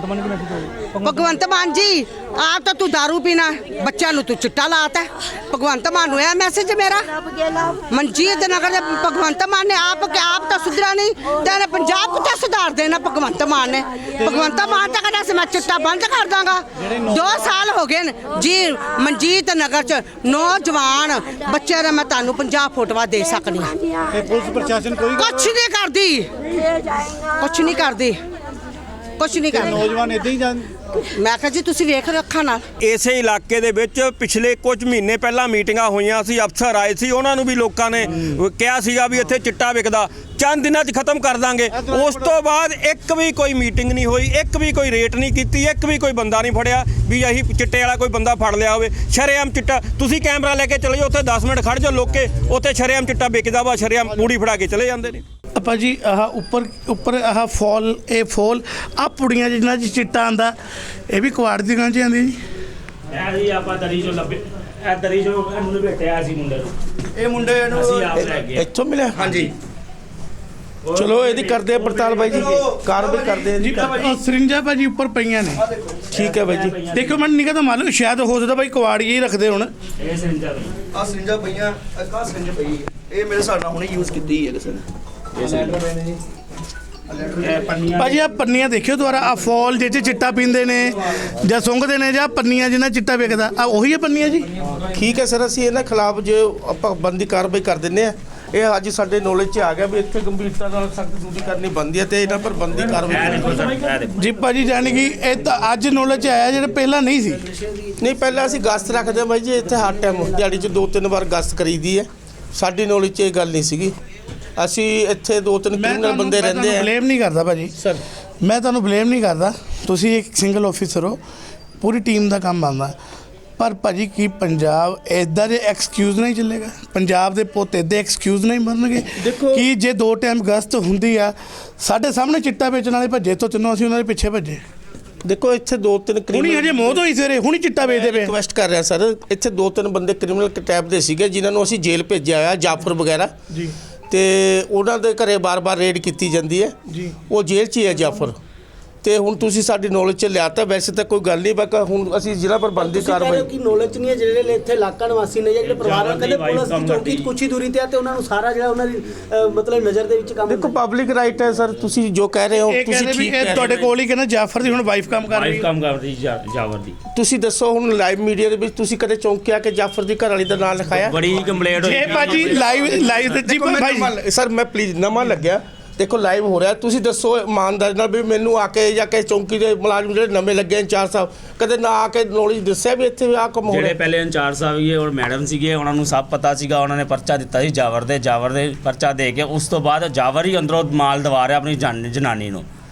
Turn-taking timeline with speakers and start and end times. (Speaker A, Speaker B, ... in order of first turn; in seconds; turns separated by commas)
Speaker A: 0.9-7.1, Speaker A: 7.8-23.7, Speaker B: 14.4-14.9, Speaker B: 24.2-25.0, Speaker A: 25.0-26.3, Speaker A: 27.3-28.2, Speaker A: 29.2-30.2, Speaker A: 31.1-32.6, Speaker C: 32.8-55.2, Speaker B: 55.5-60.5, Speaker B: 61.1-62.4, Speaker D: 63.1-66.7, Speaker E: 67.1-68.1, Speaker D: 67.7-68.7, Speaker F: 68.2-69.3, Speaker E: 69.2-69.5, Speaker D: 69.2-69.5, Speaker D: 70.8-72.5, Speaker F: 70.9-73.8, Speaker E: 72.3-74.2, Speaker B: 73.6-75.6, Speaker E: 75.5-76.0, Speaker F: 76.1-76.8, Speaker D: 76.1-77.2, Speaker B: 76.9-79.7, Speaker D: 80.0-80.7, Speaker E: 80.9-84.8, Speaker D: 85.3-85.8, Speaker D: 87.4-88.2, Speaker B: 88.0-94.5, Speaker F: 94.8-103.7, Speaker D: 103.1-104.1, Speaker B: 104.2-107.4, Speaker F: 108.0-113.9, Speaker F: 114.6-116.9, Speaker B: 115.7-117.7, Speaker B: 118.4-121.2, Speaker B: 121.8-122.9, Speaker B: 123.6-134.6, Speaker F: 129.2-129.7, Speaker F: 135.2-137.0, Speaker B: 136.3-138.3, Speaker F: 137.8-143.3, Speaker F: 144.1-146.8, Speaker F: 147.3-148.4, Speaker F: 149.0-153.5, Speaker G: 152.8-160.8, Speaker D: 155.6-157.3, Speaker F: 160.4-163.9, Speaker B: 162.7-165.7, Speaker D: 165.3-166.9, Speaker F: 167.1-171.2, Speaker D: 170.9-173.4, Speaker B: 171.7-174.1, Speaker F: 173.5-184.0, Speaker D: 183.7-192.7